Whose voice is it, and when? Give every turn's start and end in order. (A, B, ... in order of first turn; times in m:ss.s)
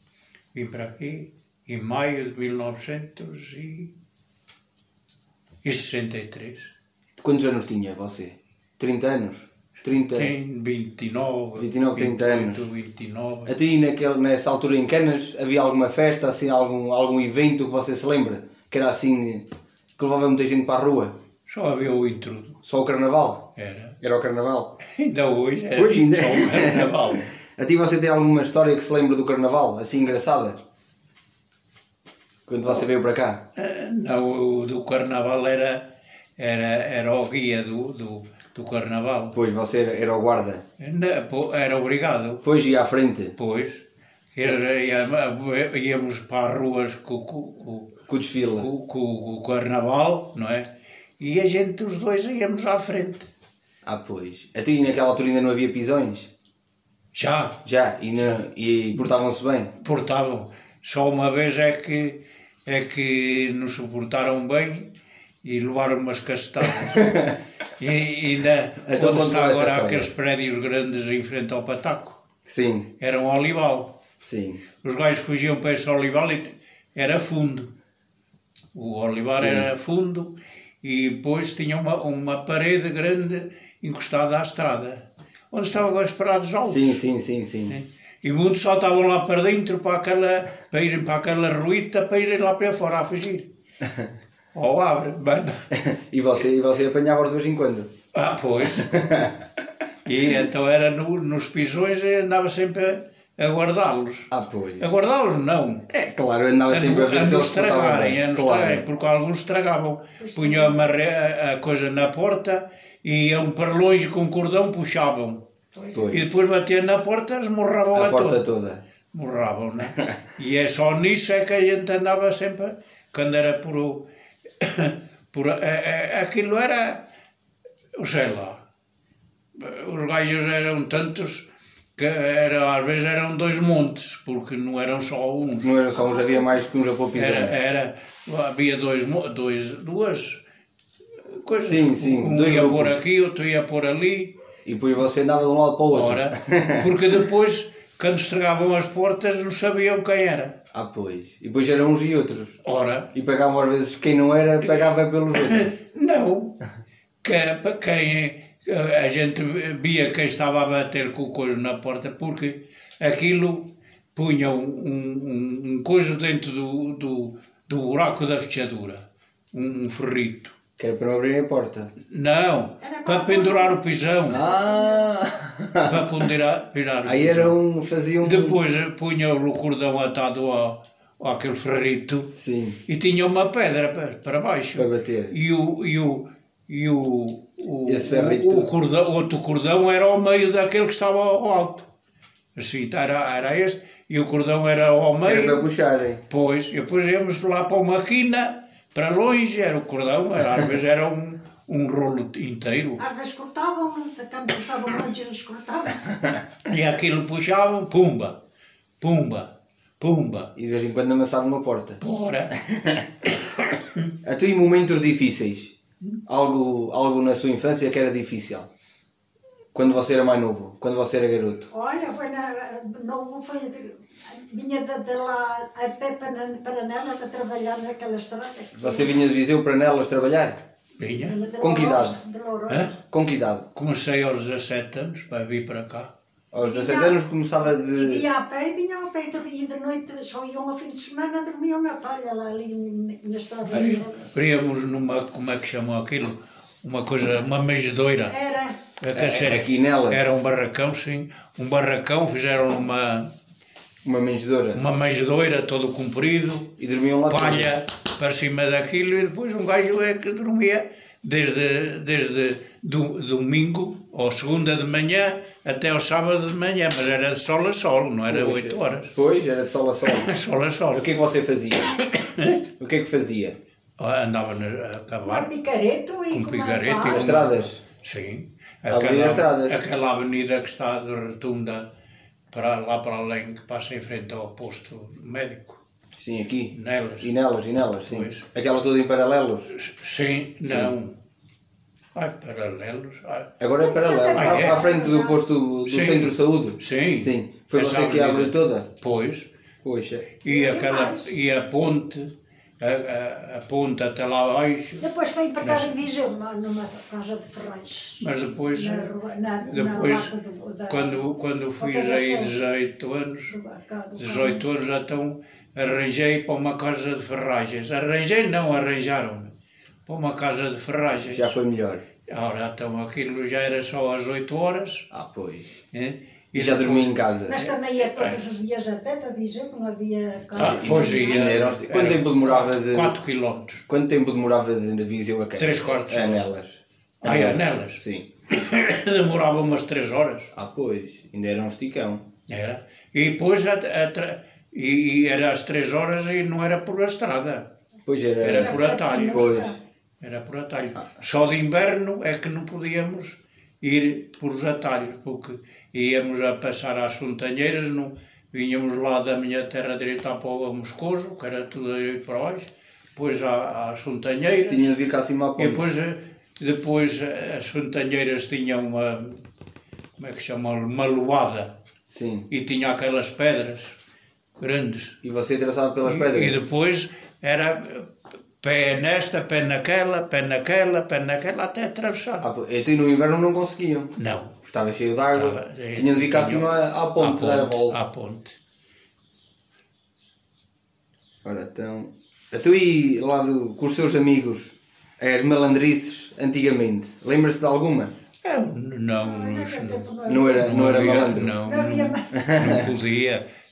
0:00.5-0:03.9 A
0:05.6-0:06.7 A
0:07.2-0:10.3 B
0:10.1-0:13.6 A
0:11.6-0:12.7 B
0:13.4-0:21.1 B
0:21.5-0:22.6 A
0:22.6-0:23.5 B
0:23.6-0:24.0 A
0:24.0-0:24.8 B
0:24.9-0:27.2 A
0:25.7-0:30.6 B
0:32.5-0:33.4 B
0:33.6-0:39.4 A
0:39.3-0:40.6 B
0:40.8-0:42.4 A
0:42.4-0:43.3 B
0:43.4-0:48.0 A
0:48.1-0:48.7 B
0:48.6-0:53.3 A
0:53.8-0:56.3 B
0:57.1-0:57.6 A
0:57.6-0:59.7 B
0:59.8-1:04.9 A
1:05.4-1:12.2 A
1:06.8-1:07.4 B
1:08.8-1:10.1 B
1:12.4-1:12.9 B
1:13.0-1:14.0 A
1:14.2-1:14.6 B
1:14.8-1:17.7 A
1:18.7-1:27.0 A
1:19.3-1:19.7 B
1:26.6-1:27.8 B
1:27.7-1:33.5 A
1:33.8-1:34.1 B
1:34.5-1:35.6 A
1:35.7-1:37.9 B
1:38.1-1:39.0 A
1:38.6-1:39.3 B
1:40.0-1:45.9 A
1:44.3-1:44.9 B
1:45.9-1:48.8 B
1:46.7-1:55.4 A
1:50.2-1:50.9 C
1:55.7-1:56.2 C
1:55.9-1:56.3 B
1:56.1-1:58.4 A
1:57.9-1:58.8 B
1:59.1-2:04.0 A
2:04.6-2:07.0 A
2:07.9-2:08.6 A
2:09.6-2:15.7 A
2:15.6-2:17.6 B
2:16.0-2:16.4 C
2:17.1-2:20.4 A
2:21.3-2:24.3 A
2:21.6-2:23.0 B
2:24.6-2:26.9 B
2:25.9-2:30.6 A
2:30.7-2:32.6 B
2:32.6-2:33.1 A
2:33.1-2:35.7 B
2:35.3-2:36.6 A
2:37.2-2:50.5 A
2:50.8-2:51.9 B
2:52.1-2:54.4 A
2:52.8-2:55.2 C
2:54.3-2:56.3 B
2:55.8-2:57.6 A
2:57.0-2:58.6 B
2:58.2-3:02.3 A
3:02.4-3:02.8 B
3:02.9-3:11.9 A
3:04.8-3:05.3 B
3:07.8-3:08.7 B
3:12.6-3:15.6 A
3:15.2-3:16.2 B
3:16.3-3:23.0 A
3:23.0-3:26.0 C
3:26.7-3:28.4 A
3:29.0-3:30.5 A
3:30.5-3:32.0 B
3:32.0-3:32.5 A
3:32.6-3:33.0 B
3:33.2-3:34.1 A
3:34.2-3:35.7 B
3:36.3-3:38.7 B
3:39.7-3:41.7 B
3:41.7-3:49.2 C
3:48.8-3:50.6 B
3:51.0-3:51.4 A
3:51.1-3:53.0 C
3:51.6-3:52.2 B
3:53.1-3:53.6 B
3:53.7-3:56.1 A
3:56.5-3:58.2 B
3:56.6-4:04.3 C
4:03.7-4:08.3 A
4:08.3-4:08.8 C
4:09.0-4:13.3 A
4:09.1-4:10.2 B
4:14.0-4:14.8 B
4:14.7-4:16.7 A
4:16.8-4:17.8 B
4:17.3-4:29.1 A
4:28.3-4:30.3 B
4:30.0-4:31.1 A
4:30.9-4:32.0 B
4:31.9-4:32.6 A
4:32.8-4:33.6 B
4:34.0-4:35.5 A
4:35.2-4:37.3 C
4:36.3-4:41.9 A
4:37.1-4:37.8 B
4:38.9-4:39.8 B
4:42.5-4:45.8 A
4:46.2-4:49.7 B
4:46.7-4:47.3 A
4:48.0-4:48.4 A
4:49.7-4:51.1 A
4:50.6-4:50.9 B
4:52.1-4:53.5 A
4:53.6-4:58.9 B
4:53.8-4:55.4 C
4:54.3-4:54.8 A
4:55.8-4:59.5 A
4:59.8-5:00.3 B
5:00.4-5:05.0 A
5:00.4-5:01.4 C
5:05.0-5:11.2 C
5:05.6-5:06.0 A
5:08.2-5:09.1 A
5:09.7-5:10.3 A
5:10.9-5:13.5 A
5:11.8-5:12.6 C
5:13.5-5:14.7 C
5:14.2-5:19.5 A
5:20.0-5:21.6 A
5:21.2-5:22.0 B
5:22.3-5:25.1 A
5:25.1-5:25.8 B
5:25.9-5:28.4 A
5:26.5-5:27.6 B
5:27.5-5:31.5 C
5:30.6-5:33.2 B
5:30.6-5:33.8 A
5:33.9-5:38.3 B
5:35.6-5:36.4 A
5:37.2-5:40.5 A
5:40.5-5:42.2 B
5:42.5-5:47.7 A
5:48.0-5:49.7 B
5:48.4-5:49.6 A
5:48.5-5:49.8 C
5:50.2-6:04.9 A
6:04.6-6:05.8 B
6:05.6-6:09.4 A
6:10.2-6:11.7 A
6:12.1-6:12.5 B
6:12.5-6:14.0 A
6:14.6-6:15.2 A
6:15.2-6:16.6 B
6:16.0-6:18.1 A
6:18.6-6:22.4 A
6:22.4-6:28.0 B
6:24.2-6:24.6 A
6:25.3-6:28.5 A
6:31.4-6:38.1 B
6:38.4-6:40.0 A
6:39.2-6:41.0 C
6:40.3-6:41.6 B
6:40.6-6:43.4 A
6:41.6-6:42.3 C
6:42.3-6:42.9 B